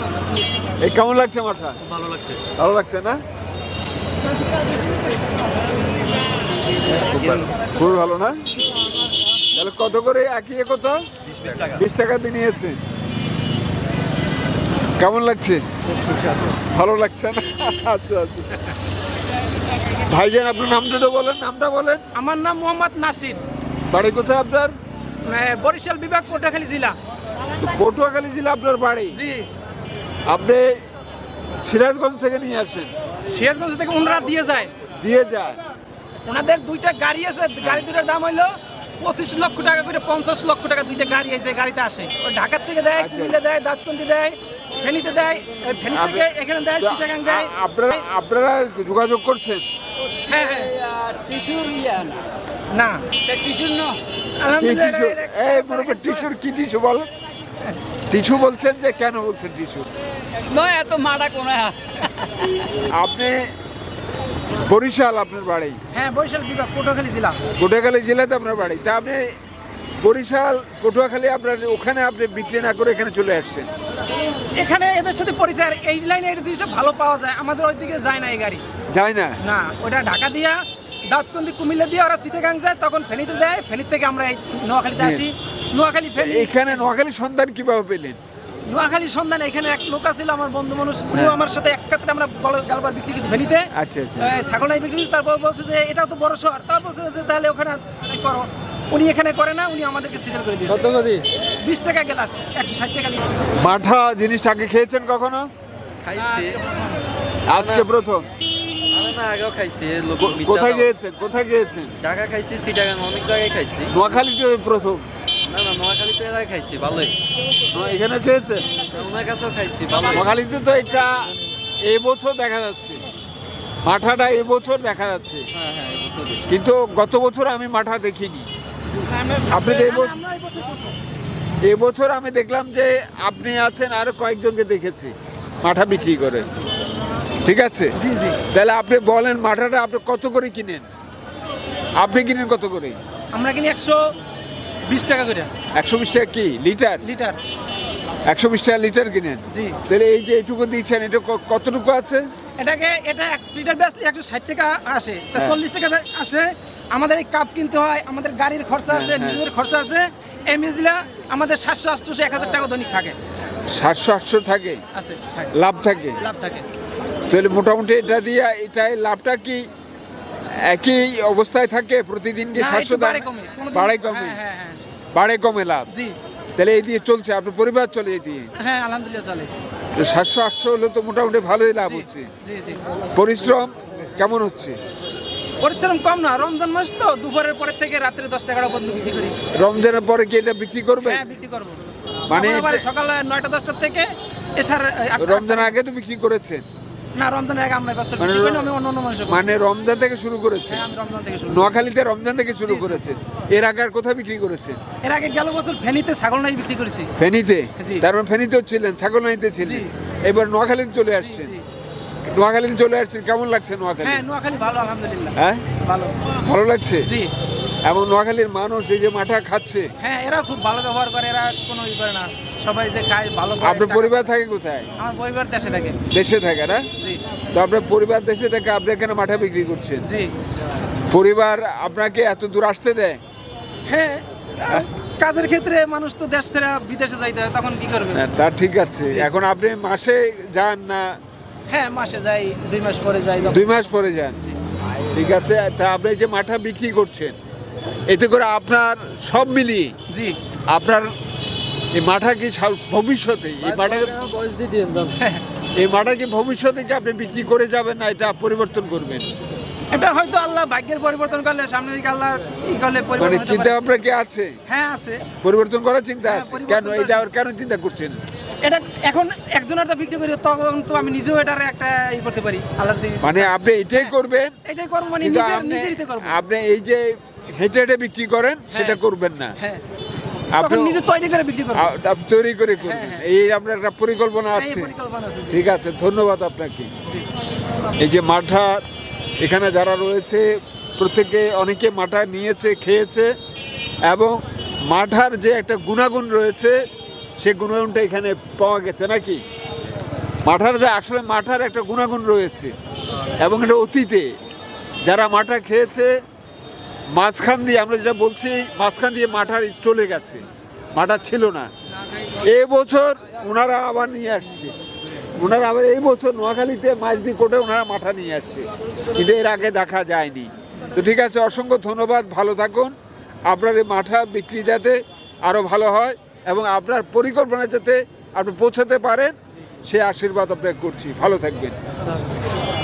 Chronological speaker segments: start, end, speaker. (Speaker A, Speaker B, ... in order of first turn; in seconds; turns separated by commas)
Speaker A: 0.8-1.8, Speaker B: 1.9-2.4, Speaker A: 2.5-3.2, Speaker B: 6.9-7.5, Speaker A: 7.6-8.4, Speaker A: 9.5-11.0, Speaker B: 11.4-11.7, Speaker A: 11.7-12.8, Speaker A: 15.0-15.6, Speaker A: 16.6-18.7, Speaker A: 20.1-22.0, Speaker C: 22.1-23.4, Speaker A: 23.9-24.7, Speaker C: 25.2-26.9, Speaker A: 27.6-29.2, Speaker C: 29.1-29.5, Speaker A: 30.3-30.8, Speaker A: 31.6-32.9, Speaker C: 33.2-34.7, Speaker A: 35.0-35.6, Speaker C: 36.2-48.0, Speaker A: 43.0-43.4, Speaker A: 45.9-46.3, Speaker A: 46.8-49.6, Speaker C: 50.3-50.7, Speaker B: 50.5-52.2, Speaker C: 52.7-53.1, Speaker B: 53.2-54.0, Speaker C: 54.4-56.3, Speaker A: 54.5-57.1, Speaker A: 58.1-59.9, Speaker B: 60.4-62.0, Speaker A: 62.9-63.5, Speaker A: 64.6-65.8, Speaker C: 65.9-67.4, Speaker A: 67.5-69.3, Speaker A: 70.0-73.7, Speaker C: 74.5-78.6, Speaker A: 78.9-79.3, Speaker C: 79.4-86.8, Speaker A: 85.0-85.3, Speaker A: 86.2-88.2, Speaker C: 88.6-100.9, Speaker A: 91.1-91.4, Speaker A: 93.7-94.4, Speaker B: 100.7-101.2, Speaker C: 101.6-103.2, Speaker A: 103.6-105.5, Speaker B: 106.0-106.6, Speaker C: 106.1-106.9, Speaker A: 107.5-108.3, Speaker B: 107.5-107.8, Speaker B: 108.9-110.9, Speaker A: 110.2-112.0, Speaker B: 112.0-113.9, Speaker A: 113.9-115.0, Speaker B: 115.5-117.2, Speaker A: 117.7-118.7, Speaker B: 118.9-120.3, Speaker A: 120.1-123.0, Speaker A: 123.8-125.5, Speaker B: 125.5-126.4, Speaker A: 126.5-128.5, Speaker C: 128.9-131.0, Speaker A: 129.5-130.2, Speaker A: 131.6-136.5, Speaker A: 137.4-137.9, Speaker C: 138.0-138.4, Speaker A: 138.5-140.8, Speaker A: 142.0-143.0, Speaker C: 143.3-144.1, Speaker C: 144.8-145.5, Speaker A: 145.8-147.0, Speaker C: 147.0-147.4, Speaker A: 148.3-152.3, Speaker C: 149.5-149.8, Speaker C: 152.6-163.2, Speaker A: 158.9-159.4, Speaker A: 163.7-164.8, Speaker C: 164.9-165.5, Speaker A: 165.5-166.2, Speaker C: 166.2-166.6, Speaker A: 167.3-169.7, Speaker A: 170.5-174.4, Speaker C: 172.6-174.8, Speaker A: 175.1-175.9, Speaker C: 175.9-176.1, Speaker A: 176.6-178.5, Speaker C: 178.6-179.5, Speaker A: 179.9-182.3, Speaker C: 181.8-182.8, Speaker A: 183.1-184.8, Speaker C: 185.6-189.4, Speaker A: 189.5-191.2, Speaker C: 191.0-195.7, Speaker A: 192.3-192.8, Speaker A: 195.2-196.6, Speaker C: 197.2-199.6, Speaker A: 198.2-198.7, Speaker A: 199.3-200.8, Speaker C: 200.7-201.8, Speaker A: 201.5-204.8, Speaker C: 202.6-203.1, Speaker C: 205.0-207.1, Speaker A: 207.2-211.5, Speaker C: 207.8-208.0, Speaker C: 209.6-209.9, Speaker C: 211.2-211.6, Speaker A: 212.2-214.2, Speaker C: 214.0-216.3, Speaker A: 215.4-215.6, Speaker A: 216.4-217.1, Speaker C: 217.1-217.3, Speaker A: 217.8-219.9, Speaker C: 220.0-224.2, Speaker A: 223.6-224.9, Speaker C: 225.0-226.0, Speaker A: 226.1-226.9, Speaker A: 227.5-230.1, Speaker C: 230.0-230.3, Speaker A: 231.1-233.2, Speaker C: 233.9-238.2, Speaker A: 238.1-241.2, Speaker C: 241.7-243.8, Speaker A: 243.4-244.4, Speaker A: 245.1-247.4, Speaker A: 248.1-249.9, Speaker C: 250.1-250.4, Speaker A: 250.7-251.1, Speaker A: 251.9-254.1, Speaker B: 253.6-255.2, Speaker C: 255.2-255.4, Speaker A: 255.8-259.3, Speaker C: 259.9-263.8, Speaker A: 263.2-264.5, Speaker C: 264.7-265.2, Speaker A: 265.4-268.2, Speaker C: 266.2-267.2, Speaker C: 268.6-274.1, Speaker A: 273.2-274.6, Speaker C: 274.6-276.4, Speaker A: 275.2-279.5, Speaker C: 278.7-279.0, Speaker A: 280.5-281.0, Speaker C: 280.5-281.9, Speaker A: 281.7-284.9, Speaker C: 282.8-283.2, Speaker C: 284.5-285.6, Speaker A: 285.5-286.9, Speaker A: 287.9-288.8, Speaker A: 289.4-293.3, Speaker A: 294.1-296.8, Speaker A: 297.4-299.4, Speaker A: 300.4-302.7, Speaker A: 303.4-304.3, Speaker A: 305.1-306.1, Speaker A: 307.1-311.7, Speaker A: 312.4-314.7, Speaker A: 315.4-322.9, Speaker A: 323.5-331.8